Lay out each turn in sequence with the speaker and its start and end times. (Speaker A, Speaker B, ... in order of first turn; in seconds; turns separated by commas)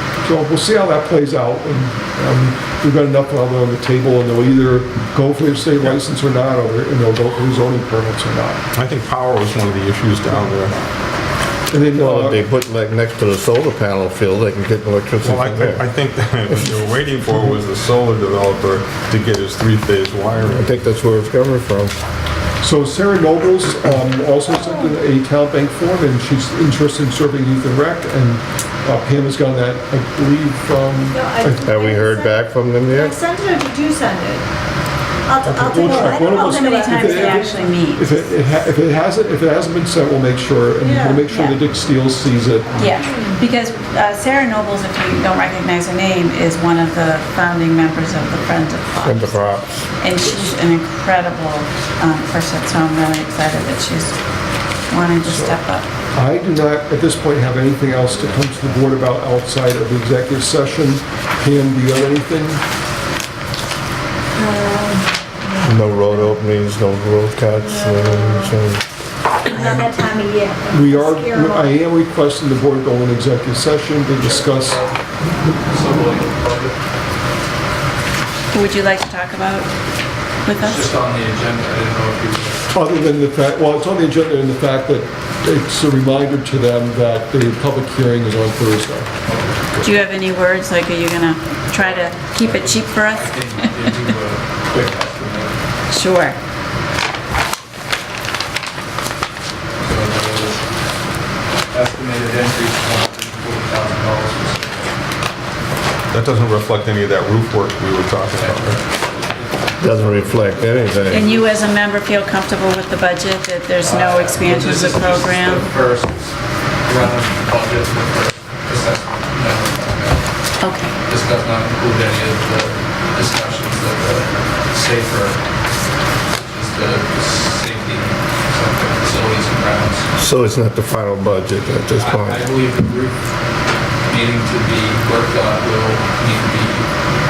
Speaker A: 0.2-8.6, Speaker B: 8.7-10.8, Speaker A: 11.7-12.4, Speaker C: 11.9-15.8, Speaker B: 15.2-20.7, Speaker C: 20.5-21.9, Speaker A: 22.6-31.7, Speaker D: 24.6-25.0, Speaker D: 31.1-34.4, Speaker C: 31.6-33.1, Speaker D: 35.3-37.6, Speaker A: 35.4-42.9, Speaker E: 35.9-38.3, Speaker D: 40.8-41.3, Speaker E: 41.3-41.5, Speaker E: 42.8-54.1, Speaker D: 43.0-43.4, Speaker C: 49.0-49.7, Speaker E: 54.9-55.8, Speaker A: 55.2-55.6, Speaker A: 56.1-62.6, Speaker D: 64.3-66.4, Speaker C: 65.6-68.8, Speaker D: 67.6-68.5, Speaker D: 69.4-71.7, Speaker A: 70.7-74.8, Speaker F: 74.2-75.0, Speaker F: 75.5-76.8, Speaker E: 78.5-79.7, Speaker E: 80.4-80.9, Speaker F: 80.6-82.7, Speaker A: 82.7-89.1, Speaker F: 89.2-89.9, Speaker E: 89.8-93.7, Speaker F: 91.7-95.5, Speaker E: 95.9-96.4, Speaker F: 99.8-100.7, Speaker F: 101.7-104.9, Speaker B: 106.1-108.8, Speaker F: 108.3-111.6, Speaker C: 109.8-111.3, Speaker E: 111.1-115.7, Speaker F: 113.8-116.3, Speaker F: 116.8-120.2, Speaker E: 120.6-121.0, Speaker F: 121.0-125.4, Speaker F: 126.3-130.1, Speaker C: 130.2-132.4, Speaker F: 131.6-133.2, Speaker F: 134.0-136.8